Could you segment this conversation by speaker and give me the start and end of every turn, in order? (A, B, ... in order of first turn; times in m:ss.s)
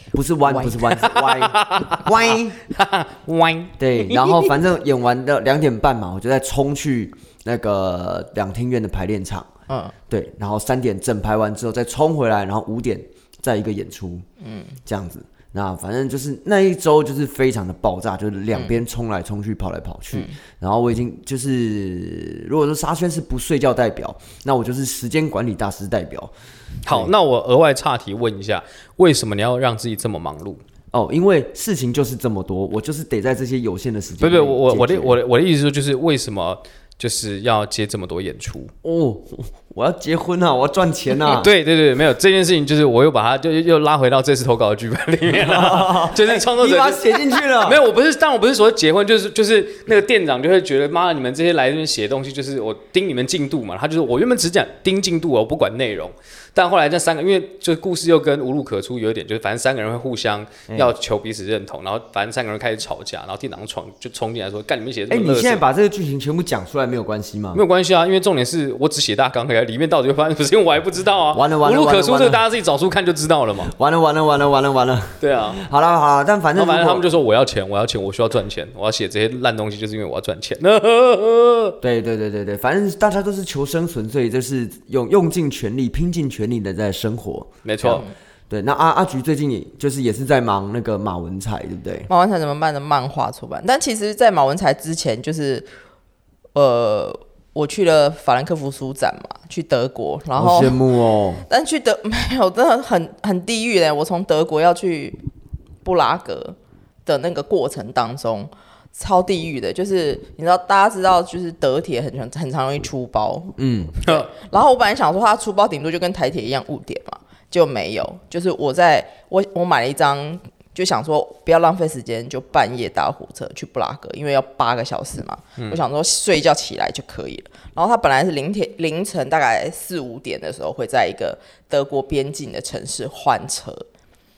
0:00.1-0:02.6 A
0:00.9-0:02.1 B
0:02.7-0:04.5 B
0:03.8-0:09.5 A
0:09.7-0:09.9 C
0:10.1-0:14.2 A
0:14.4-0:14.8 C
0:14.9-0:26.3 A
0:26.8-0:30.6 B
0:26.9-0:27.1 A
0:30.9-0:35.2 A
0:34.2-0:38.7 B
0:38.8-0:41.5 A
0:41.2-1:05.6 B
0:45.3-0:47.8 A
1:00.7-1:00.9 A
1:05.1-1:07.6 A
1:07.6-1:13.7 B
1:11.3-1:12.4 A
1:13.7-1:17.0 A
1:15.2-1:15.6 B
1:16.6-1:21.8 B
1:21.8-1:32.1 A
1:27.6-1:28.0 B
1:32.1-1:35.7 C
1:36.6-1:40.8 C
1:40.3-1:41.4 A
1:41.5-1:45.2 C
1:45.8-2:13.8 C
1:53.6-1:54.0 A